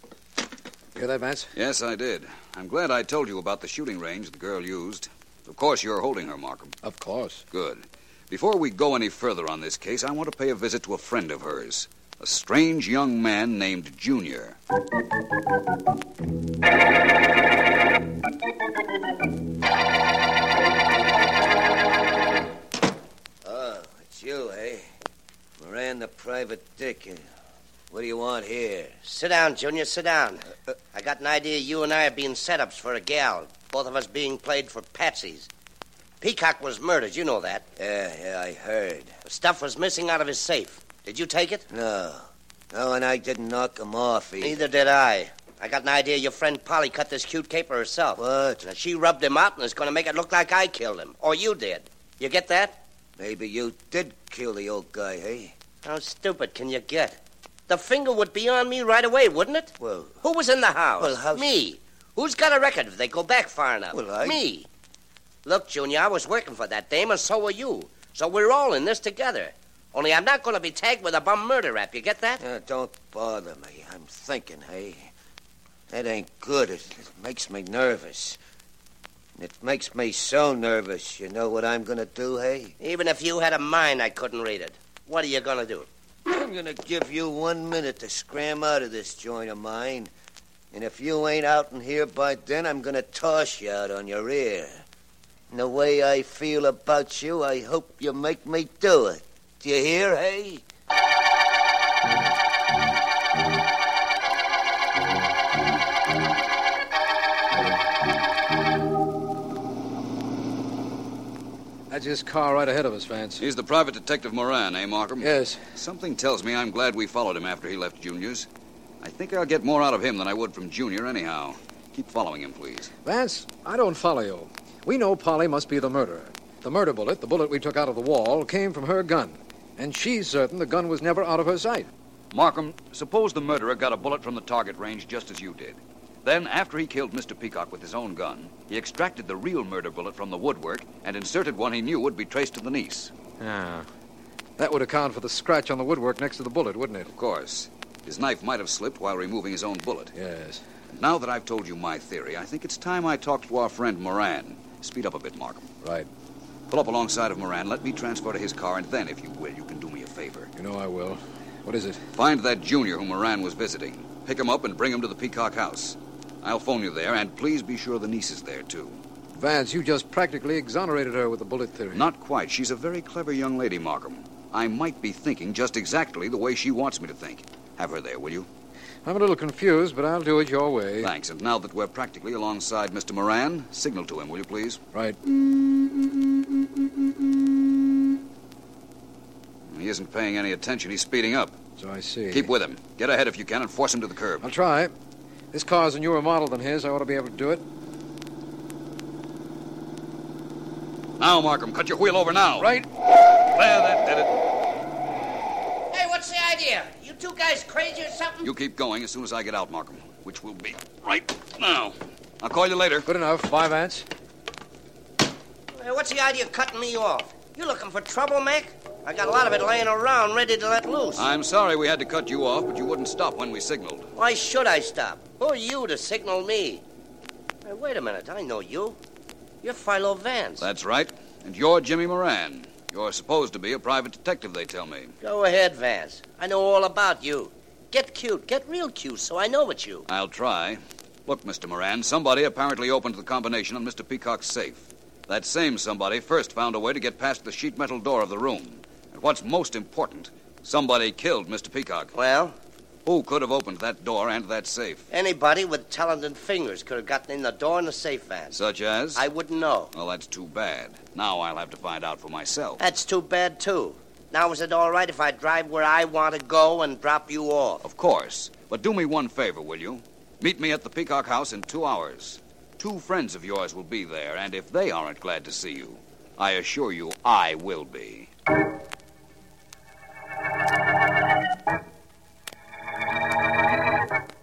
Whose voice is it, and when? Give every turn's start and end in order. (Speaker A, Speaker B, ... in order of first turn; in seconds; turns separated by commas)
Speaker A: 0.9-1.5, Speaker B: 1.5-6.8, Speaker A: 6.8-7.4, Speaker B: 7.5-14.6, Speaker C: 23.4-24.9, Speaker C: 25.6-27.2, Speaker C: 27.9-29.0, Speaker D: 29.1-35.5, Speaker D: 36.2-37.6, Speaker C: 37.8-39.1, Speaker D: 39.2-41.6, Speaker C: 41.7-44.6, Speaker D: 44.4-52.8, Speaker C: 48.1-48.6, Speaker C: 53.2-55.5, Speaker D: 55.8-64.7, Speaker C: 59.8-60.2, Speaker C: 61.0-61.5, Speaker C: 63.9-64.4, Speaker D: 65.4-72.4, Speaker C: 72.4-75.1, Speaker C: 75.9-78.4, Speaker C: 79.4-82.7, Speaker D: 82.8-85.9, Speaker C: 86.3-90.1, Speaker C: 90.7-94.8, Speaker C: 95.5-100.6, Speaker A: 111.9-113.4, Speaker B: 113.4-118.5, Speaker A: 115.2-115.6, Speaker B: 119.0-122.9, Speaker A: 123.0-131.9, Speaker B: 132.3-143.1, Speaker A: 143.4-143.9, Speaker A: 144.6-147.1, Speaker B: 147.1-150.1, Speaker A: 150.1-150.6, Speaker B: 150.9-155.7, Speaker A: 155.8-156.1, Speaker B: 156.7-160.5, Speaker A: 160.6-162.1, Speaker B: 162.1-169.0, Speaker A: 169.3-172.1, Speaker B: 171.9-178.5, Speaker A: 179.0-181.1, Speaker B: 181.0-184.8, Speaker A: 184.9-185.2, Speaker B: 189.7-191.6, Speaker A: 191.8-192.5, Speaker B: 192.3-194.5, Speaker A: 194.4-194.9, Speaker A: 195.5-197.7, Speaker B: 201.2-202.8, Speaker A: 202.6-202.9, Speaker B: 203.3-204.3, Speaker D: 205.9-208.5, Speaker B: 208.4-213.1, Speaker A: 213.0-214.1, Speaker D: 215.7-221.2, Speaker B: 221.2-224.1, Speaker D: 224.2-226.8, Speaker D: 227.6-229.0, Speaker D: 229.6-230.6, Speaker B: 230.6-235.1, Speaker D: 235.2-240.1, Speaker B: 240.1-252.1, Speaker D: 252.1-252.6, Speaker B: 253.1-255.0, Speaker D: 255.1-258.5, Speaker B: 258.5-259.2, Speaker D: 259.1-259.9, Speaker B: 259.9-262.8, Speaker D: 262.8-267.8, Speaker B: 267.8-278.3